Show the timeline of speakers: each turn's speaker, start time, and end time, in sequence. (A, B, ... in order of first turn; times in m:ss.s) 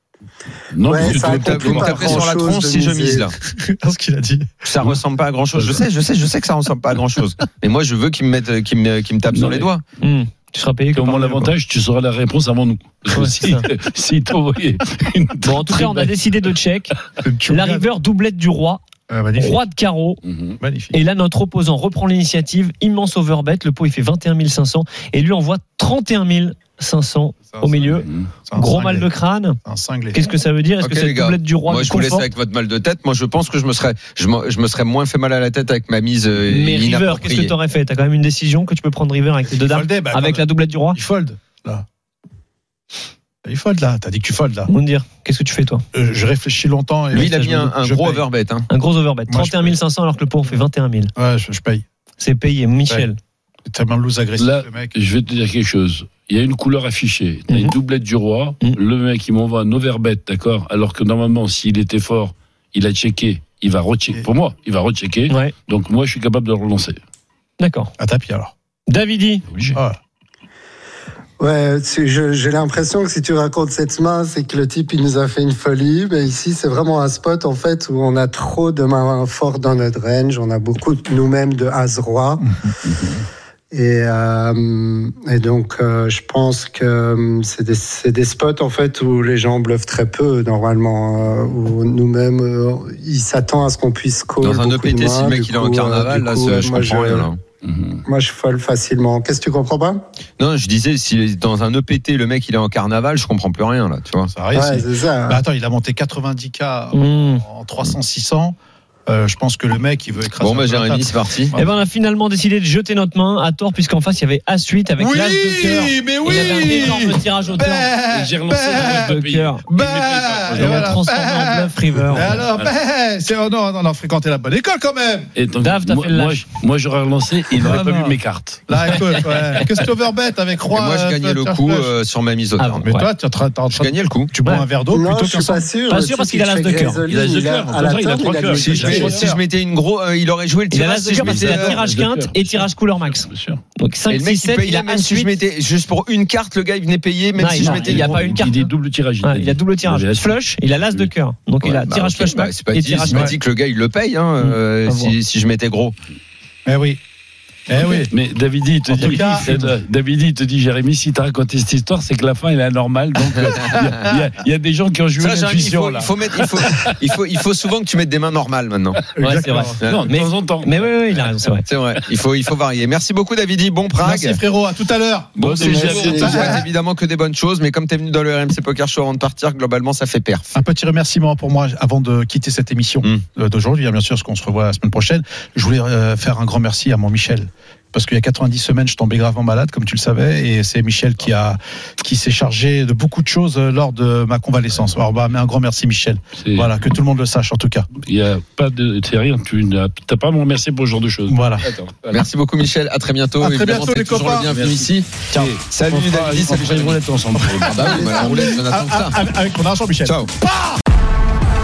0:00.7-0:02.2 A
0:00.9-0:03.3 B
0:01.0-0:03.3 C
0:03.4-0:04.6 D
0:04.6-0:09.8 C
0:09.3-0:09.7 A
0:10.0-0:11.5 E
0:10.9-0:16.1 A
0:13.1-0:13.6 E
0:15.4-0:18.8 E
0:17.2-0:17.9 D
0:19.1-0:19.6 D
0:19.4-0:20.2 E
0:20.2-0:20.6 A
0:20.6-0:21.0 D
0:20.9-0:29.6 E
0:27.5-0:29.1 D
0:28.0-0:28.3 A
0:29.6-0:30.3 D
0:30.1-0:32.3 E
0:30.8-0:37.5 C
0:36.4-0:41.0 E
0:39.5-0:41.8 D
0:43.4-0:44.7 D
0:44.7-0:45.8 E
0:45.9-0:48.2 D
0:47.1-0:48.6 C
0:47.1-0:47.7 E
0:48.7-0:51.1 E
0:49.3-0:49.8 D
0:51.2-0:51.8 D
0:52.2-0:53.2 E
0:53.6-0:55.0 D
0:54.4-1:07.0 A
0:57.5-0:57.7 E
1:05.3-1:05.5 E
1:07.6-1:07.9 E
1:08.0-1:08.5 D
1:08.9-1:09.5 E
1:09.5-1:09.8 A
1:11.4-1:22.4 B
1:22.4-1:22.8 D
1:22.9-1:23.2 A
1:23.7-1:37.3 B
1:34.4-1:37.4 C
1:37.6-1:38.0 A
1:38.1-1:40.0 B
1:40.4-1:44.3 C
1:44.3-1:51.7 D
1:44.5-1:45.4 B
1:46.9-1:47.4 E
1:50.4-1:51.5 C
1:51.5-1:57.9 E
1:55.0-1:59.1 D
1:58.0-2:01.0 A
1:58.7-1:59.6 E
1:59.7-2:05.3 D
2:00.5-2:02.4 E
2:02.1-2:02.7 A
2:05.4-2:09.0 A
2:05.6-2:06.4 E
2:07.6-2:12.0 D
2:10.7-2:12.9 C
2:12.6-2:13.1 E
2:12.8-2:15.6 D
2:13.7-2:14.3 C
2:14.9-2:19.2 B
2:15.9-2:17.0 E
2:17.1-2:19.3 A
2:18.5-2:19.4 D
2:18.5-2:21.8 C
2:20.7-2:25.4 E
2:21.2-2:23.6 A
2:24.1-2:28.2 C
2:27.4-2:33.4 E
2:27.6-2:30.4 A
2:31.6-2:36.0 C
2:33.1-2:33.4 D
2:34.4-2:35.2 E
2:36.6-2:37.0 D
2:37.7-2:38.1 D
2:38.1-2:47.0 A
2:38.9-2:39.6 D
2:38.9-2:39.7 E
2:45.2-2:49.0 C
2:49.2-2:49.8 D
2:49.2-2:51.6 E
2:49.8-2:50.1 C
2:49.9-2:51.3 A
2:51.7-2:54.4 C
2:54.0-2:56.6 D
2:55.4-3:00.5 C
2:55.4-2:56.4 A
2:55.7-2:56.5 B
3:00.5-3:17.9 D
3:16.4-3:16.7 A
3:18.0-3:22.2 A
3:21.3-3:21.7 D
3:22.1-3:27.0 C
3:23.4-3:24.5 D
3:24.5-3:28.1 A
3:27.3-3:30.8 D
3:27.6-3:29.2 C
3:28.1-3:28.4 B